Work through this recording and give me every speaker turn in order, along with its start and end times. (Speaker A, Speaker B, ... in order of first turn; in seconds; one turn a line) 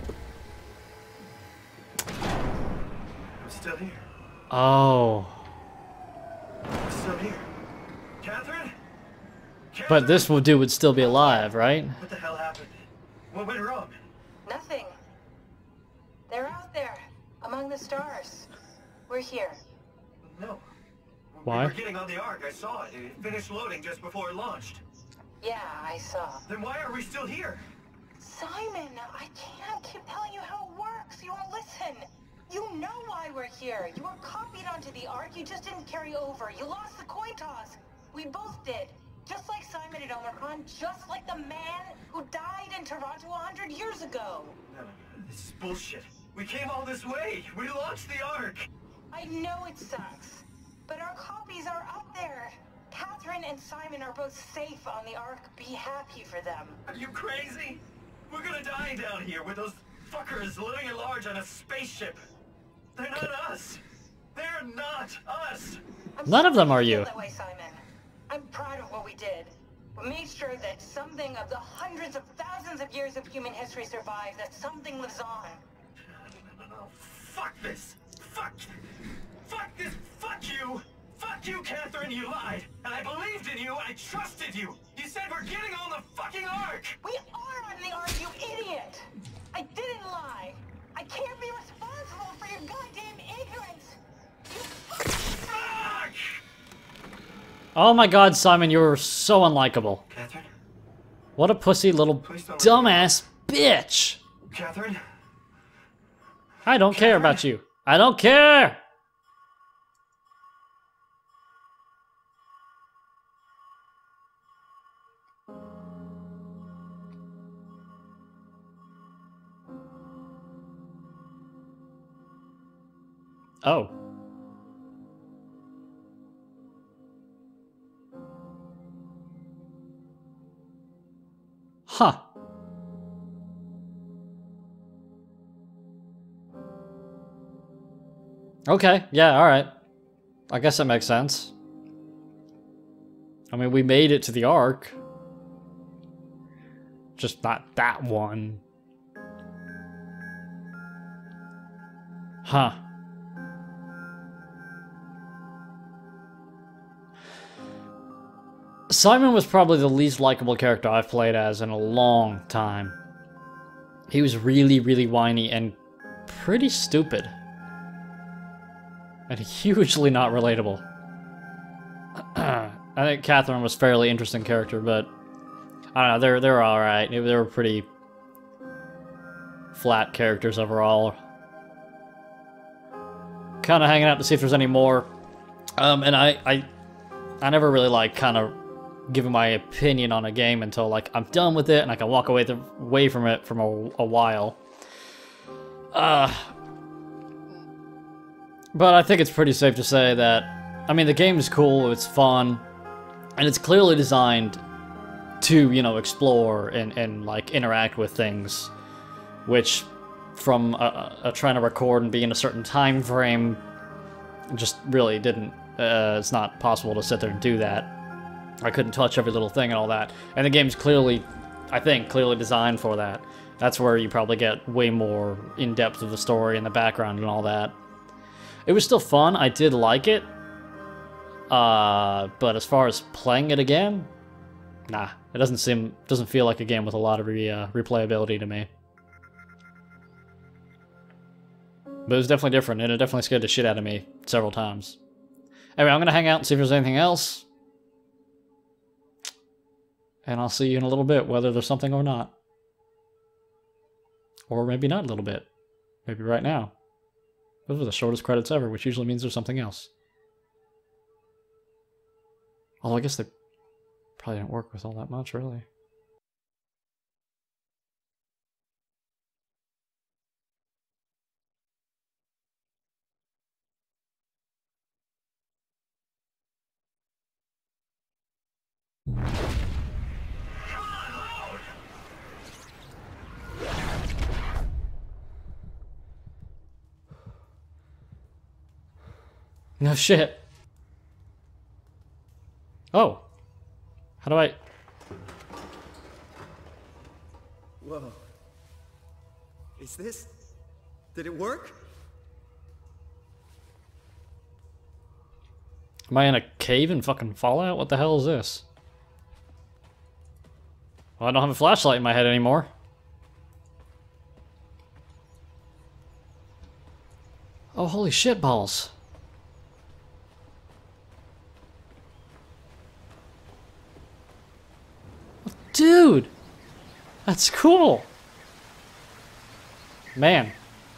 Speaker A: 3.4-4.1
Speaker B: 4.5-5.3
Speaker A: 6.8-7.5
Speaker A: 8.2-8.8
Speaker A: 9.7-10.4
Speaker B: 9.9-12.0
Speaker C: 11.0-11.5
Speaker A: 12.0-14.0
Speaker C: 14.4-15.0
Speaker C: 16.3-18.5
Speaker C: 19.1-19.6
Speaker A: 20.2-20.6
Speaker A: 21.3-24.8
Speaker B: 21.5-21.8
Speaker C: 25.4-26.5
Speaker A: 26.5-27.7
Speaker C: 28.2-44.6
Speaker A: 44.7-48.7
Speaker C: 49.1-56.8
Speaker A: 56.9-62.2
Speaker A: 63.0-63.8
Speaker A: 64.3-65.8
Speaker C: 66.2-75.6
Speaker B: 66.3-67.1
Speaker A: 76.0-78.8
Speaker A: 79.4-87.0
Speaker C: 87.0-94.0
Speaker C: 94.5-95.3
Speaker A: 95.4-96.4
Speaker B: 97.8-100.0
Speaker A: 100.1-100.5
Speaker B: 101.4-104.2
Speaker A: 102.2-103.2
Speaker A: 104.5-105.0
Speaker B: 106.7-108.8
Speaker A: 106.9-107.4
Speaker B: 123.6-123.9
Speaker B: 131.9-132.2
Speaker B: 138.7-139.7
Speaker B: 140.5-141.5
Speaker B: 143.5-145.0
Speaker B: 147.2-148.6
Speaker B: 152.4-152.8
Speaker B: 158.9-163.0
Speaker B: 164.1-165.8
Speaker B: 166.3-167.3
Speaker B: 169.3-170.8
Speaker B: 172.2-175.1
Speaker B: 175.9-177.9
Speaker B: 179.7-181.2
Speaker B: 183.6-185.1
Speaker B: 185.8-186.7
Speaker B: 187.4-188.6
Speaker B: 189.1-194.6
Speaker B: 195.9-196.5
Speaker B: 198.7-202.6
Speaker B: 203.4-204.6
Speaker B: 205.4-208.7
Speaker B: 209.5-213.6
Speaker B: 214.5-217.9
Speaker B: 218.6-227.8
Speaker B: 228.7-230.3
Speaker B: 231.5-234.1
Speaker B: 234.9-238.7
Speaker B: 242.1-245.0
Speaker B: 245.8-247.4
Speaker B: 250.2-252.3
Speaker B: 254.5-255.5
Speaker B: 256.1-256.7
Speaker B: 257.7-259.9
Speaker B: 262.8-263.3
Speaker B: 264.2-265.6
Speaker A: 280.6-281.7
Speaker B: 289.8-290.4
Speaker B: 292.9-293.2
Speaker B: 294.2-294.6
Speaker A: 297.8-298.2
Speaker A: 299.8-300.4
Speaker A: 301.1-301.8
Speaker B: 306.1-308.6
Speaker B: 311.2-312.7
Speaker B: 317.8-318.9
Speaker B: 325.4-326.3
Speaker B: 327.2-328.1
Speaker B: 330.2-330.5